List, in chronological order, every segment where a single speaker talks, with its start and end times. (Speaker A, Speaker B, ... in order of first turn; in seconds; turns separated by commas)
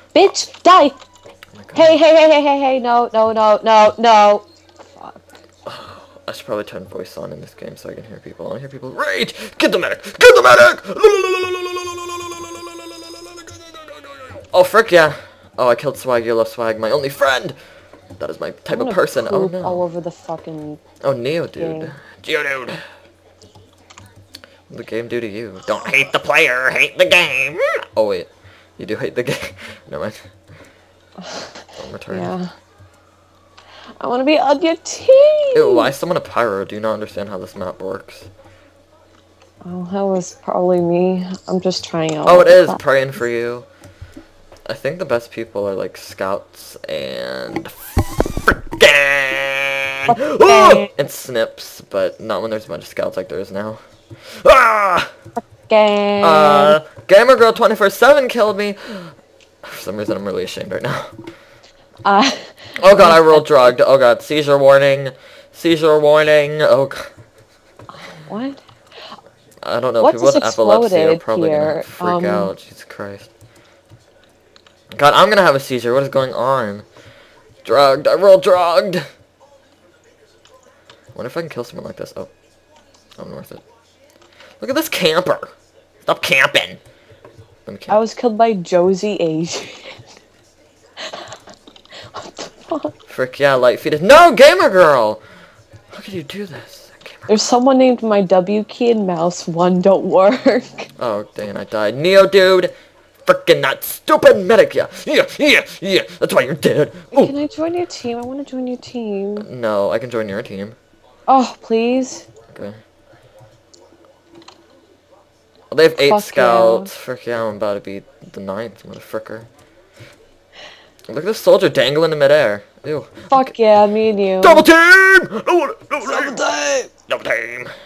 Speaker A: 0.1-1.0, Speaker B: 1.5-2.0, Speaker A: 1.7-5.3, Speaker B: 5.6-17.6, Speaker B: 18.2-19.8, Speaker A: 18.7-20.8, Speaker B: 21.0-22.8, Speaker A: 21.6-21.9, Speaker B: 24.7-30.2, Speaker A: 31.2-32.5, Speaker B: 31.8-32.3, Speaker A: 34.0-35.9, Speaker B: 35.5-38.3, Speaker A: 39.6-42.8, Speaker B: 42.2-43.7, Speaker B: 44.6-53.8, Speaker A: 50.1-51.0, Speaker B: 54.4-55.1, Speaker A: 55.6-56.8, Speaker B: 56.2-61.1, Speaker A: 62.0-63.7, Speaker B: 62.8-67.1, Speaker A: 68.0-68.6, Speaker B: 69.6-73.3, Speaker A: 70.0-72.5, Speaker B: 74.9-76.8, Speaker B: 77.6-79.0, Speaker B: 81.1-82.3, Speaker B: 83.2-83.6, Speaker B: 84.6-85.5, Speaker B: 86.0-86.8, Speaker B: 87.7-88.0, Speaker A: 87.9-90.0, Speaker A: 92.1-92.9, Speaker B: 93.1-95.2, Speaker B: 95.9-97.3, Speaker A: 97.3-100.9, Speaker B: 101.0-102.7, Speaker B: 103.2-107.3, Speaker A: 107.2-109.5, Speaker B: 109.4-110.8, Speaker A: 111.3-112.3, Speaker B: 112.5-112.8, Speaker B: 115.7-119.5, Speaker A: 116.0-116.9, Speaker B: 121.1-123.5, Speaker A: 123.3-124.7, Speaker B: 124.4-126.4, Speaker A: 126.0-126.9, Speaker B: 127.1-127.7